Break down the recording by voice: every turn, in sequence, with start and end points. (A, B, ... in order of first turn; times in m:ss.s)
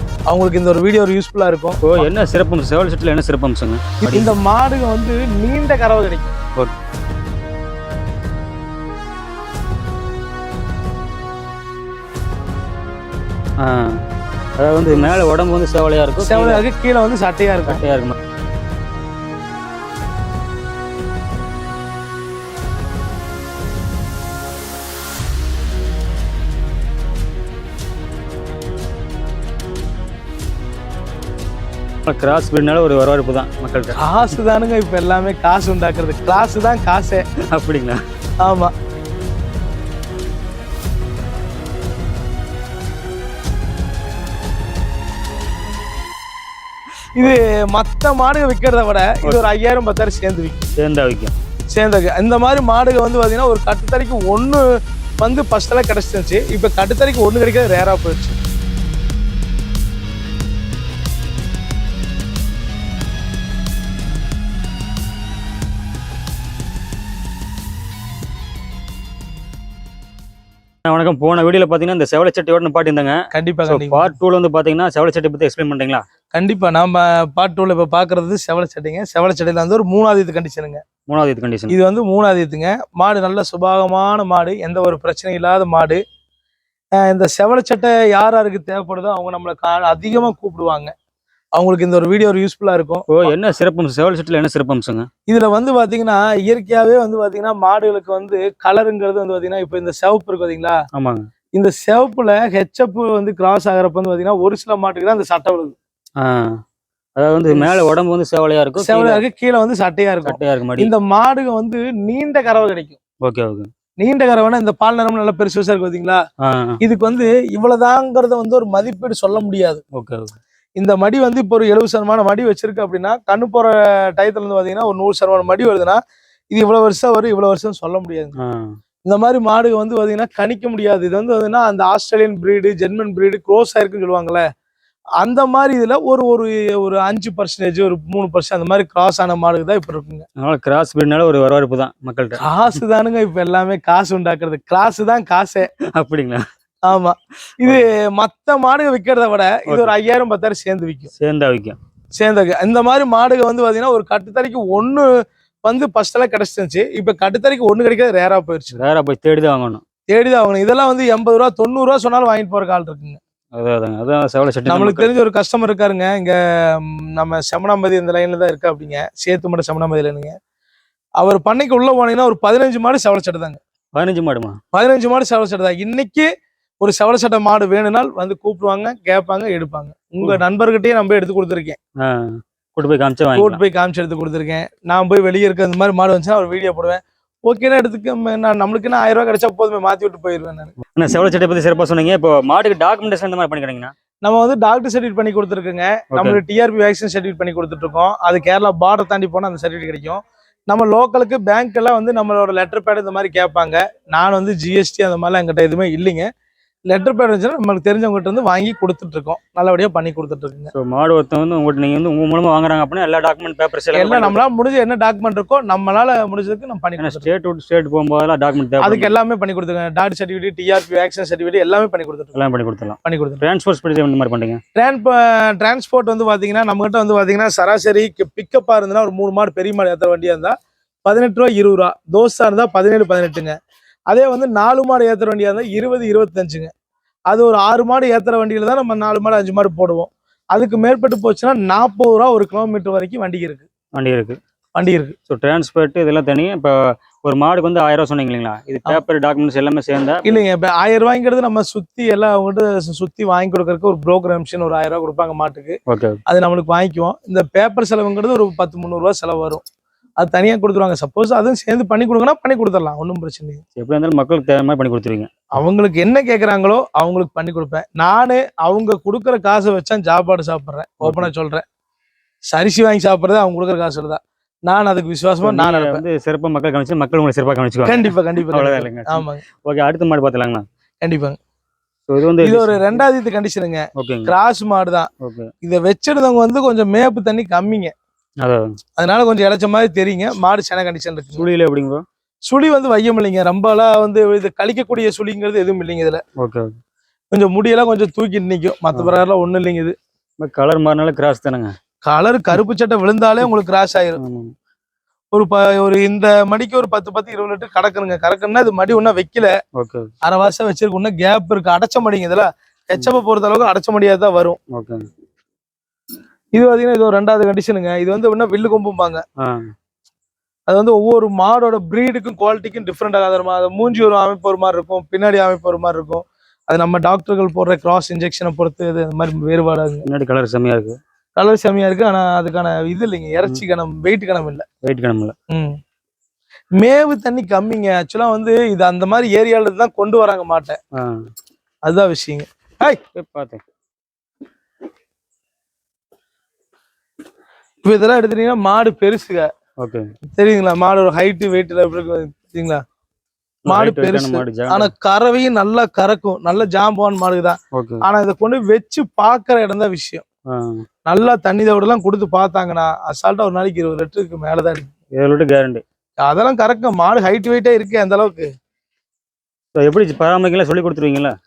0:00.3-0:02.1 A
0:01.8-0:04.4 B
0:04.0-0:06.3 A
0:13.6-0:14.0 B
0:14.6-0:16.6 B
0:16.2-0:17.8 A
0:17.7-0:18.2 B
0:32.1-0:34.0 B
0:34.0-0:37.3 A
0:37.5-0:38.0 B
0:38.4-0:38.7 A
0:47.2-0:50.7 A
0:50.8-0:51.3 B
0:51.7-0:54.6 A
0:55.2-0:58.4 A
1:10.9-1:16.0 B
1:13.3-1:14.1 A
1:16.3-1:20.8 A
1:21.1-1:21.8 B
1:21.7-1:26.0 A
1:27.0-1:30.9 A
1:31.6-1:33.3 A
1:33.1-1:35.1 B
1:35.3-1:40.8 A
1:40.9-1:41.3 B
1:41.6-1:45.8 A
1:46.2-1:46.6 B
1:47.2-1:49.2 B
1:47.5-1:47.9 A
1:48.8-1:53.0 A
1:50.2-1:50.9 B
1:53.2-1:53.7 B
1:54.0-1:56.2 A
1:56.4-1:56.8 B
1:56.8-1:59.8 A
2:00.0-2:00.4 B
2:00.8-2:06.0 A
2:06.5-2:08.4 A
2:08.4-2:08.6 B
2:09.1-2:14.4 A
2:15.2-2:20.3 A
2:20.4-2:22.4 B
2:22.4-2:25.7 A
2:26.0-2:26.4 B
2:26.9-2:31.1 A
2:31.2-2:31.8 B
2:32.2-2:35.1 A
2:35.6-2:38.8 A
2:38.8-2:39.8 B
2:40.1-2:43.2 A
2:43.5-2:45.1 B
2:44.7-2:50.4 A
2:51.2-2:53.6 A
2:53.9-2:54.6 B
2:54.7-2:56.3 A
2:56.8-3:01.8 A
3:02.0-3:03.6 B
3:03.4-3:10.7 A
3:11.0-3:13.9 B
3:14.2-3:26.3 A
3:16.1-3:16.4 B
3:26.9-3:30.7 A
3:30.7-3:34.4 B
3:33.9-3:37.3 A
3:37.0-3:39.2 B
3:38.8-3:42.4 A
3:42.4-3:44.6 B
3:43.0-3:43.4 A
3:44.8-3:50.5 A
3:51.0-3:53.6 A
3:54.1-3:56.7 A
3:57.3-4:03.7 A
4:04.0-4:04.4 B
4:04.8-4:05.2 A
4:05.3-4:10.4 B
4:10.2-4:19.6 A
4:15.9-4:16.2 B
4:20.2-4:23.6 A
4:23.8-4:25.3 B
4:25.6-4:31.6 A
4:31.0-4:31.3 B
4:32.5-4:36.0 A
4:35.4-4:40.6 B
4:37.8-4:39.4 A
4:41.0-4:41.4 A
4:42.1-4:43.0 B
4:42.4-4:45.1 A
4:44.0-4:44.3 B
4:45.2-4:45.5 B
4:45.6-4:47.9 A
4:49.0-4:51.5 A
4:51.4-4:52.0 B
4:52.5-4:56.2 A
4:56.4-4:56.8 B
4:57.3-5:00.0 A
5:00.4-5:01.8 B
5:02.0-5:04.2 A
5:04.2-5:04.5 B
5:05.3-5:09.5 A
5:09.8-5:10.1 B
5:10.2-5:14.6 A
5:14.7-5:15.0 B
5:16.6-5:19.2 A
5:19.4-5:19.7 B
5:20.7-5:30.1 A
5:30.1-5:31.0 B
5:31.4-5:34.6 A
5:34.8-5:35.4 B
5:35.5-5:35.8 A
5:36.8-5:40.8 A
5:41.9-5:43.0 A
5:43.2-5:43.6 B
5:47.8-5:49.5 A
5:49.8-5:50.1 B
5:50.4-5:52.8 A
5:53.7-5:54.9 B
5:53.7-6:00.2 A
5:57.7-5:58.0 B
6:00.5-6:00.8 B
6:01.1-6:04.9 A
6:05.2-6:05.8 B
6:06.2-6:08.5 A
6:09.8-6:11.3 B